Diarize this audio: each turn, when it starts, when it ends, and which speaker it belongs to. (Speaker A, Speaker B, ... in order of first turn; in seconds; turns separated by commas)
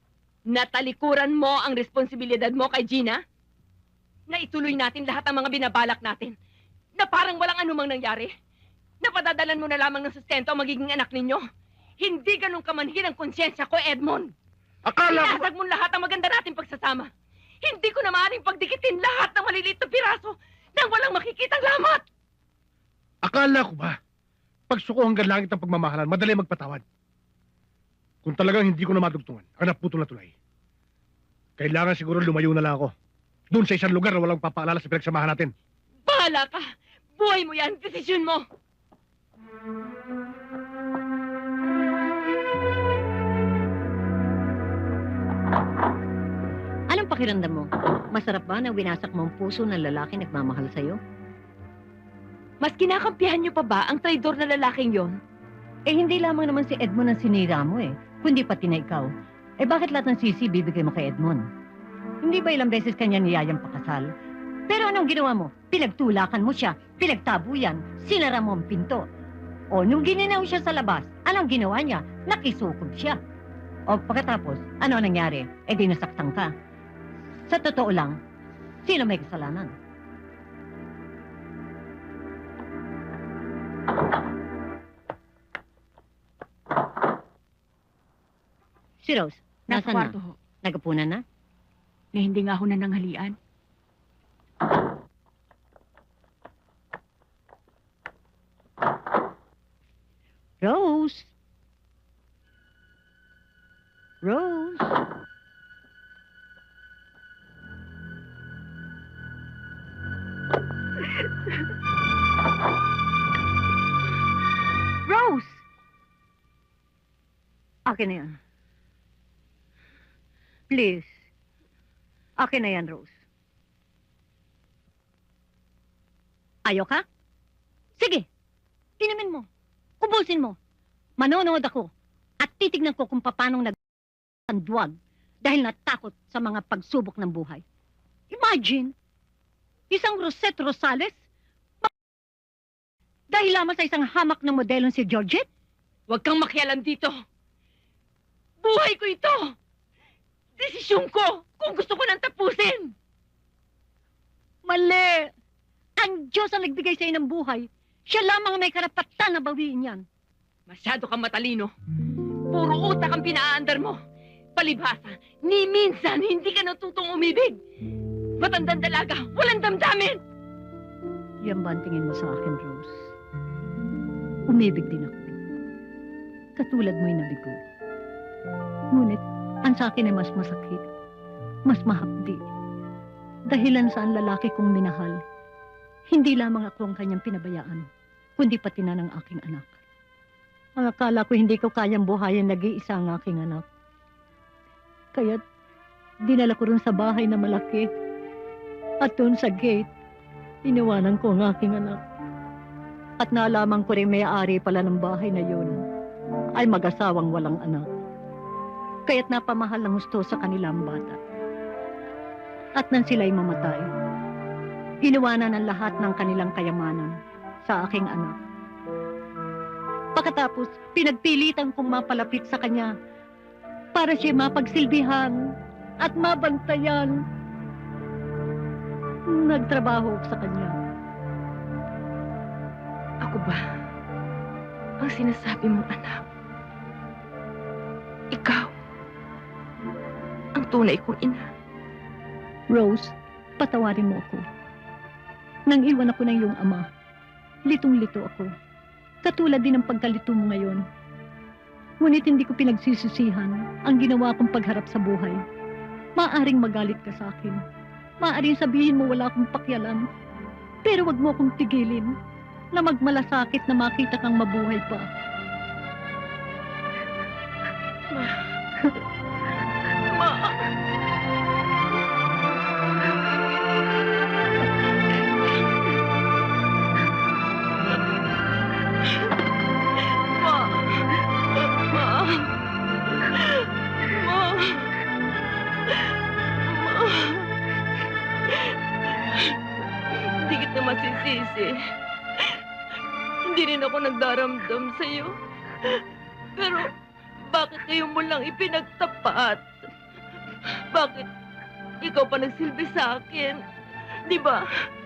Speaker A: 0.5-3.2, Speaker A: 4.3-6.3, Speaker A: 7.0-8.3, Speaker A: 9.0-11.4, Speaker A: 12.0-14.3, Speaker B: 14.9-15.5, Speaker A: 15.1-17.1, Speaker A: 17.6-22.1, Speaker B: 23.2-23.9, Speaker B: 24.7-26.8, Speaker B: 28.2-30.3, Speaker B: 31.6-32.9, Speaker B: 33.5-35.5, Speaker A: 36.1-38.4, Speaker C: 46.9-51.0, Speaker A: 52.6-55.2, Speaker C: 55.9-59.1, Speaker C: 59.6-61.4, Speaker C: 62.2-64.1, Speaker C: 64.7-69.0, Speaker C: 69.7-73.2, Speaker C: 73.9-76.5, Speaker C: 77.4-78.2, Speaker C: 78.8-79.7, Speaker C: 89.0-91.2, Speaker D: 89.7-90.3, Speaker D: 92.1-93.3, Speaker C: 100.6-101.3, Speaker C: 104.2-104.9, Speaker C: 117.9-118.4, Speaker C: 120.7-121.1, Speaker C: 122.4-123.1, Speaker C: 126.7-127.0, Speaker C: 129.1-129.4, Speaker C: 131.4-131.8, Speaker C: 132.4-133.6, Speaker C: 135.5-137.6, Speaker E: 138.3-138.9, Speaker E: 139.9-141.2, Speaker E: 143.3-145.4, Speaker A: 146.1-147.1, Speaker A: 148.6-149.5, Speaker A: 150.6-152.9, Speaker E: 154.7-155.3, Speaker E: 156.0-160.0, Speaker A: 160.7-161.7, Speaker A: 162.5-164.0, Speaker A: 164.6-167.6, Speaker A: 168.4-170.2, Speaker E: 171.4-173.1, Speaker E: 174.5-175.4, Speaker E: 176.6-177.6, Speaker E: 178.9-180.9, Speaker E: 181.7-182.4, Speaker E: 183.5-185.2, Speaker E: 186.1-187.9, Speaker E: 188.4-189.8, Speaker E: 190.8-193.6, Speaker E: 195.1-195.4, Speaker E: 196.3-197.9, Speaker E: 199.0-199.9, Speaker E: 200.7-202.0, Speaker E: 203.2-205.8, Speaker E: 206.6-207.9, Speaker E: 209.1-211.2, Speaker E: 212.8-213.9, Speaker E: 215.1-217.1, Speaker E: 217.7-218.3, Speaker E: 220.2-222.9, Speaker E: 223.9-225.4, Speaker E: 226.0-227.2, Speaker E: 229.3-230.8, Speaker A: 233.2-233.6, Speaker A: 235.0-236.2, Speaker A: 238.3-238.7, Speaker A: 240.6-241.5, Speaker E: 242.7-244.4, Speaker E: 245.7-246.9, Speaker E: 247.7-248.5, Speaker E: 249.2-250.8, Speaker E: 252.0-255.4, Speaker E: 256.2-257.6, Speaker E: 258.2-260.0, Speaker E: 260.9-262.1, Speaker E: 262.7-265.1, Speaker A: 268.1-268.4, Speaker A: 270.1-270.6, Speaker A: 280.1-281.0, Speaker A: 281.6-282.5, Speaker A: 283.2-284.9, Speaker A: 286.6-287.5, Speaker A: 288.6-289.5, Speaker A: 290.3-291.7, Speaker A: 293.5-295.3, Speaker A: 296.6-296.9, Speaker A: 297.5-299.7, Speaker A: 300.9-301.3, Speaker A: 302.0-303.6, Speaker A: 304.3-304.6